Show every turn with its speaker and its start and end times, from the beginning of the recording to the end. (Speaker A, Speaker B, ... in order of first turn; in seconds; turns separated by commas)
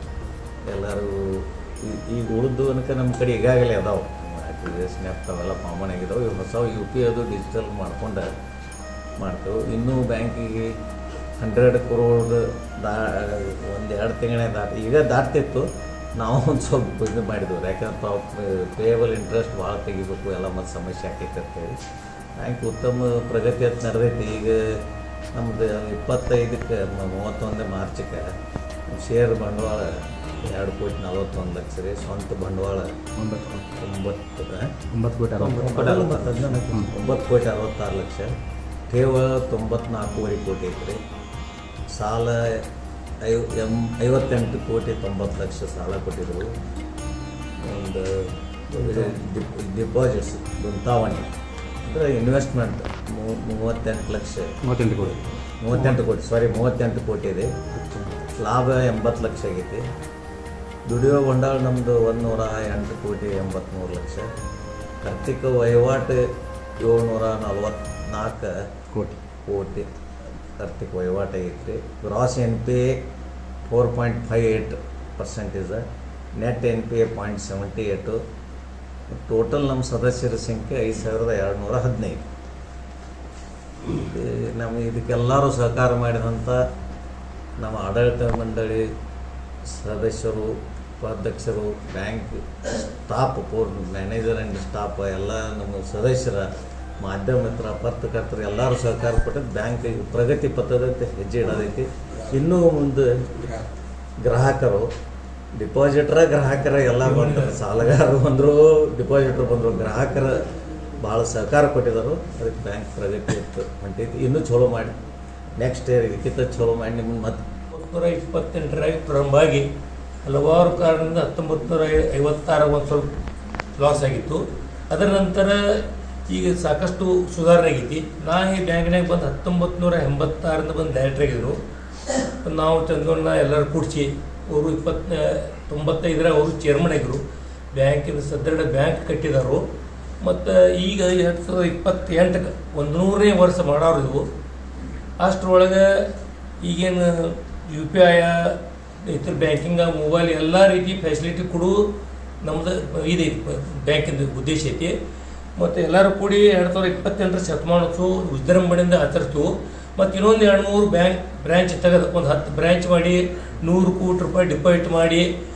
Speaker A: 0.7-8.3, Speaker A: 9.2-10.7, Speaker A: 11.4-21.8, Speaker A: 22.4-24.8, Speaker A: 25.3-28.3, Speaker A: 28.9-32.9, Speaker B: 33.2-33.7, Speaker A: 33.7-34.8, Speaker B: 34.9-36.9, Speaker A: 35.4-38.3, Speaker A: 38.9-41.0, Speaker A: 42.0-42.6, Speaker A: 43.2-46.5, Speaker A: 47.6-51.3, Speaker A: 51.9-54.5, Speaker B: 54.6-56.0, Speaker A: 55.6-57.5, Speaker B: 57.8-58.2, Speaker A: 58.4-59.8, Speaker A: 60.9-64.3, Speaker A: 65.0-66.2, Speaker A: 66.8-68.5, Speaker A: 69.5-69.9, Speaker A: 70.5-73.0, Speaker A: 73.7-75.8, Speaker A: 76.4-78.2, Speaker A: 79.2-82.2, Speaker A: 83.8-86.6, Speaker A: 87.6-88.8, Speaker A: 89.7-96.5, Speaker A: 97.0-103.1, Speaker A: 104.2-104.9, Speaker A: 105.6-110.4, Speaker C: 107.0-107.6, Speaker A: 111.0-115.0, Speaker A: 115.6-117.4, Speaker C: 117.7-119.7, Speaker C: 120.2-123.1, Speaker C: 123.8-131.6, Speaker C: 132.4-137.2, Speaker C: 137.7-139.6, Speaker C: 140.2-144.3, Speaker C: 145.2-146.1, Speaker C: 146.6-151.9, Speaker C: 152.4-154.9, Speaker C: 155.6-165.3